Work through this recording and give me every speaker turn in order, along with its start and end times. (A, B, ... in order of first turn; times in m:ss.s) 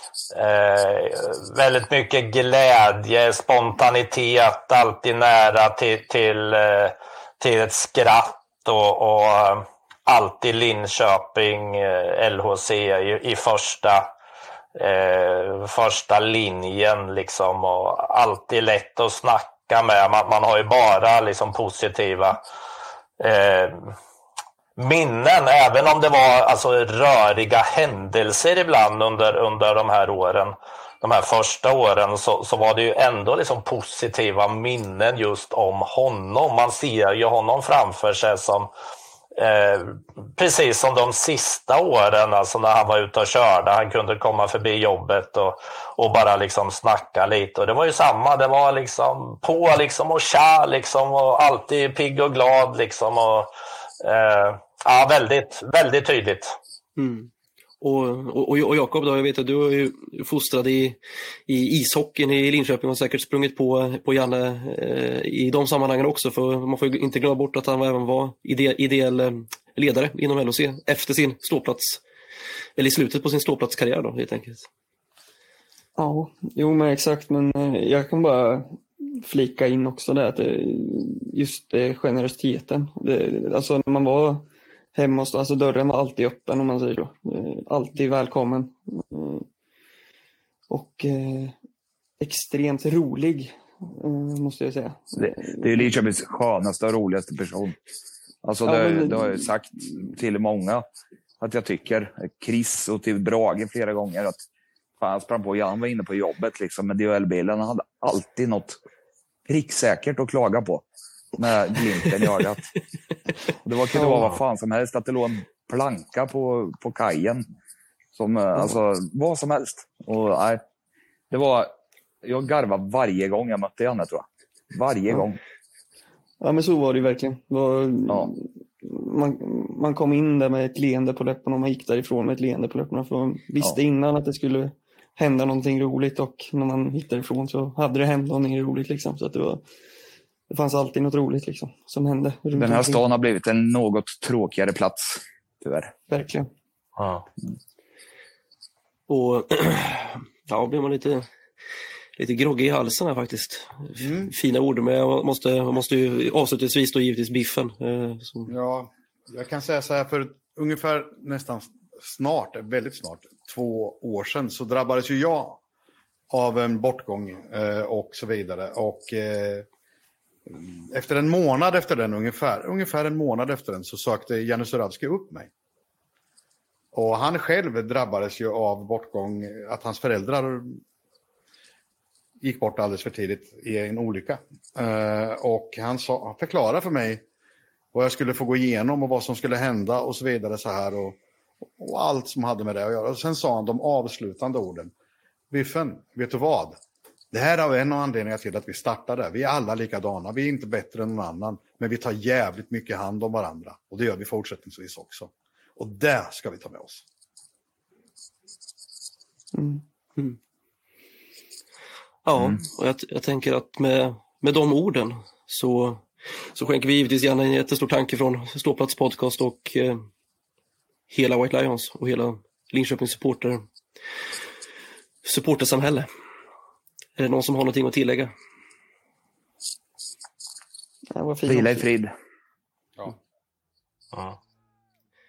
0:00.3-0:14.1 A
0:14.8-0:22.4 A
0:23.2-0:23.9 A
0:24.8-0:38.7 A
0:39.4-0:53.5 A
0:54.0-0:56.6 A
0:57.0-0:57.3 B
0:57.8-1:01.0 B
1:01.5-1:12.0 B
1:12.8-1:14.6 B
1:16.0-1:29.5 C
1:30.7-1:31.6 C
1:32.2-1:35.9 C
1:35.2-1:37.8 D
1:38.4-1:40.9 D
1:38.6-1:39.5 C
1:41.4-1:44.4 D
1:45.0-1:48.8 D
1:49.5-1:52.7 D
1:53.6-1:57.5 D
1:58.1-2:00.6 D
2:01.3-2:05.4 D
2:06.4-2:19.6 C
2:20.5-2:23.0 C
2:22.6-2:25.9 D
2:26.1-2:26.5 C
2:27.0-2:27.2 A
2:29.1-2:31.3 B
2:32.2-2:38.5 B
2:34.0-2:34.3 E
2:38.5-2:45.6 E
2:46.3-2:49.6 E
2:50.5-2:55.5 E
2:56.9-3:00.8 E
3:02.4-3:07.2 E
3:07.9-3:11.2 E
3:11.8-3:14.9 E
3:15.5-3:16.8 E
3:17.3-3:27.0 E
3:29.5-3:29.8 C
3:32.2-3:40.0 B
3:41.1-3:43.6 B
3:45.2-3:46.1 B
3:47.2-3:48.3 B
3:51.1-3:51.9 C
3:51.4-3:52.1 D